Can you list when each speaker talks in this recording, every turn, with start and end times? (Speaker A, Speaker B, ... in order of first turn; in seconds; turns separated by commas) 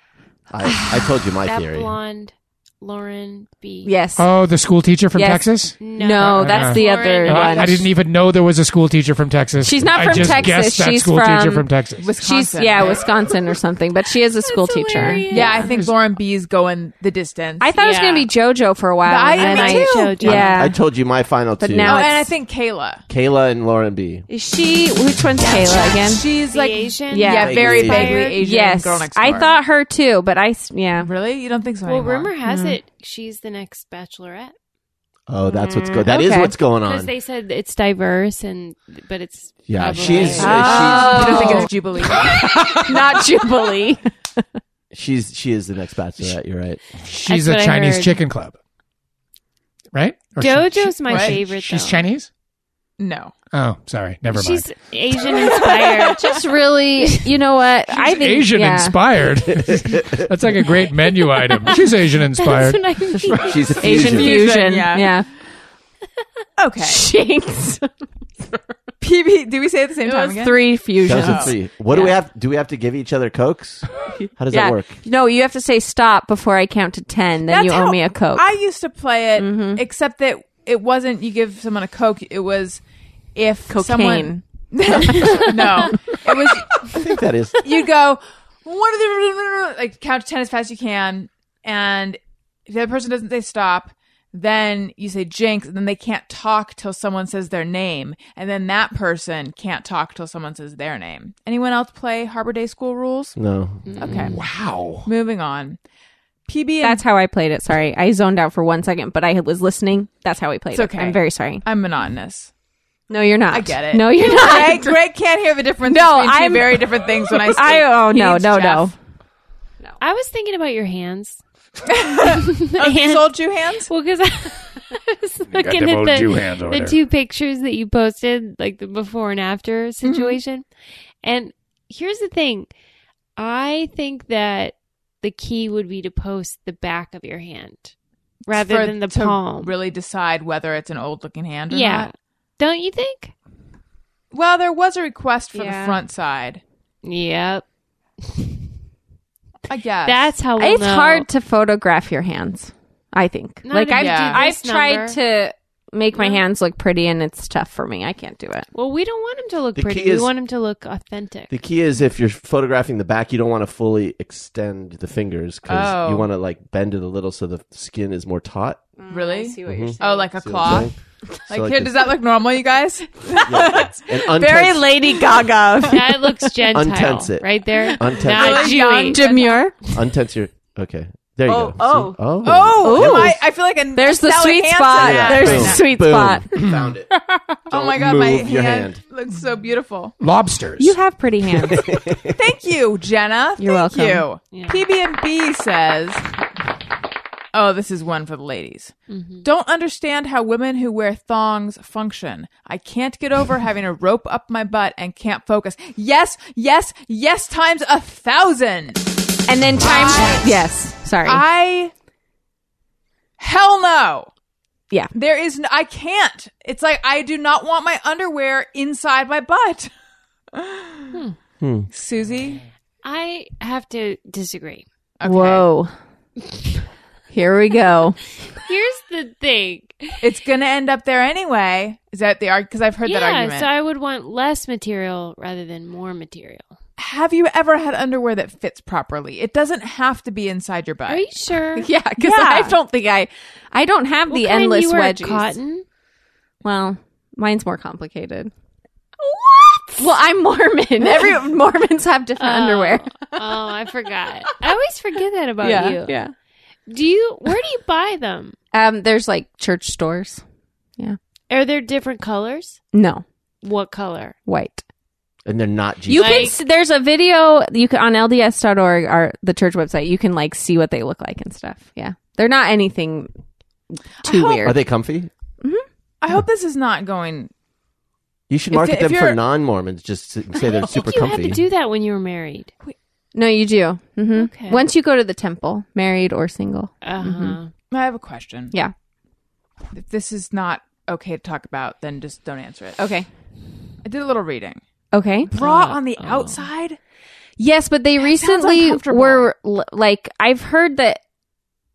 Speaker A: 0.5-1.9, Speaker B: 1.4-3.9, Speaker C: 3.9-4.3, Speaker D: 4.2-12.1, Speaker C: 5.1-7.9, Speaker B: 5.8-7.5, Speaker E: 6.8-7.8, Speaker C: 9.6-11.7, Speaker E: 12.0-13.0, Speaker C: 12.2-15.5, Speaker B: 14.4-15.8, Speaker D: 15.0-15.9, Speaker E: 15.3-17.8, Speaker C: 17.6-20.8, Speaker B: 17.8-18.3, Speaker E: 19.1-20.4, Speaker B: 19.4-20.6, Speaker A: 20.2-22.1, Speaker C: 21.6-22.3, Speaker E: 21.9-23.0, Speaker A: 23.1-24.2, Speaker C: 24.3-26.2, Speaker E: 25.9-29.6, Speaker B: 26.5-28.4, Speaker C: 27.1-27.5, Speaker A: 27.4-28.3, Speaker C: 28.4-31.1, Speaker E: 31.0-32.3, Speaker B: 31.9-34.5, Speaker C: 32.5-32.8, Speaker A: 35.3-37.1, Speaker C: 35.6-36.5, Speaker B: 36.9-41.6, Speaker A: 39.7-41.6, Speaker E: 40.1-42.6, Speaker C: 40.3-44.0, Speaker D: 42.2-43.0, Speaker A: 44.9-46.8, Speaker D: 47.0-48.5, Speaker B: 47.3-48.2, Speaker D: 49.9-52.3, Speaker B: 50.4-52.0, Speaker E: 51.1-51.4, Speaker E: 53.0-53.4, Speaker D: 53.5-54.7, Speaker B: 54.3-57.3, Speaker E: 55.4-56.0, Speaker C: 56.2-59.0, Speaker D: 57.9-63.6, Speaker A: 59.7-60.2, Speaker B: 61.4-63.8, Speaker A: 63.4-64.5, Speaker C: 63.8-65.3, Speaker E: 63.9-65.2, Speaker E: 66.6-67.1, Speaker C: 66.8-67.8, Speaker E: 69.0-71.5, Speaker C: 70.0-72.1, Speaker A: 71.0-75.0, Speaker C: 74.5-78.5, Speaker E: 77.5-82.8, Speaker C: 79.4-79.8, Speaker E: 83.3-87.0, Speaker C: 83.7-84.4, Speaker C: 85.0-86.2, Speaker A: 86.8-87.6, Speaker E: 87.6-103.4, Speaker A: 103.4-103.9, Speaker B: 103.9-104.3, Speaker E: 104.0-104.4, Speaker D: 104.2-105.1, Speaker E: 105.0-105.8, Speaker E: 106.5-107.0, Speaker C: 106.8-111.6, Speaker E: 110.7-112.5, Speaker C: 113.1-115.0, Speaker E: 113.5-119.0, Speaker C: 115.9-119.0, Speaker B: 120.0-121.4, Speaker E: 121.9-123.9, Speaker B: 122.2-130.7, Speaker D: 125.5-127.0, Speaker E: 130.0-130.4, Speaker B: 131.2-132.7, Speaker B: 133.4-137.9, Speaker E: 138.5-142.1, Speaker B: 138.5-139.7, Speaker B: 141.7-143.3, Speaker E: 144.3-146.6, Speaker C: 145.5-146.0, Speaker B: 147.0-147.6, Speaker B: 148.2-148.6, Speaker E: 149.7-150.3, Speaker B: 150.0-151.3, Speaker C: 150.6-158.7, Speaker B: 153.7-155.2, Speaker E: 154.0-154.4, Speaker B: 158.7-161.5, Speaker A: 159.8-160.3, Speaker A: 161.5-168.8, Speaker E: 165.7-166.3, Speaker C: 169.0-170.7, Speaker E: 169.1-170.9, Speaker A: 169.7-170.9, Speaker A: 171.5-172.1, Speaker E: 171.5-176.1, Speaker A: 173.4-174.9, Speaker C: 174.4-176.0, Speaker B: 175.9-179.2, Speaker A: 176.7-178.7, Speaker E: 178.2-179.7, Speaker C: 178.7-179.7, Speaker A: 179.9-183.4, Speaker C: 181.5-182.2, Speaker E: 182.4-185.8, Speaker C: 182.7-183.4, Speaker C: 183.9-186.5, Speaker A: 185.0-187.1, Speaker E: 187.7-190.2, Speaker A: 187.7-189.0, Speaker D: 190.2-191.0, Speaker C: 190.8-191.8, Speaker A: 191.6-192.3, Speaker E: 192.3-196.2, Speaker C: 193.6-194.3, Speaker B: 194.5-194.9, Speaker E: 197.5-209.1, Speaker B: 199.1-199.4, Speaker C: 209.5-211.4, Speaker E: 209.8-210.6, Speaker E: 211.2-211.9, Speaker E: 213.4-214.3, Speaker E: 215.1-219.9, Speaker E: 220.5-221.2, Speaker A: 221.6-221.9, Speaker E: 221.9-222.6, Speaker B: 223.0-224.8, Speaker E: 225.2-225.7, Speaker C: 225.2-225.9, Speaker C: 227.3-228.2, Speaker B: 228.6-230.3, Speaker E: 230.2-233.7, Speaker B: 233.0-236.7, Speaker E: 237.0-241.2, Speaker B: 241.1-241.9, Speaker C: 241.8-245.5, Speaker E: 242.2-242.8, Speaker B: 244.3-245.8, Speaker C: 246.6-248.5, Speaker B: 249.2-250.0, Speaker C: 250.0-253.4, Speaker B: 252.4-256.2, Speaker C: 255.6-256.3, Speaker B: 256.9-258.6, Speaker C: 258.7-260.4, Speaker B: 261.5-262.8, Speaker C: 262.9-263.2, Speaker B: 263.6-264.4, Speaker C: 264.5-264.8, Speaker A: 265.5-266.5, Speaker C: 266.1-273.3, Speaker B: 266.1-266.6, Speaker C: 274.2-274.8, Speaker E: 274.2-274.8, Speaker A: 274.6-275.3, Speaker E: 276.2-277.5, Speaker A: 278.5-281.6, Speaker E: 278.7-279.4, Speaker B: 280.7-282.7, Speaker C: 283.4-287.6, Speaker B: 284.3-284.8, Speaker B: 287.0-287.7, Speaker E: 287.9-288.8, Speaker E: 289.9-293.0, Speaker C: 293.0-293.3, Speaker E: 294.0-294.8, Speaker C: 295.1-295.5, Speaker E: 295.5-297.0, Speaker B: 295.6-296.6, Speaker C: 297.6-301.2, Speaker E: 298.2-299.5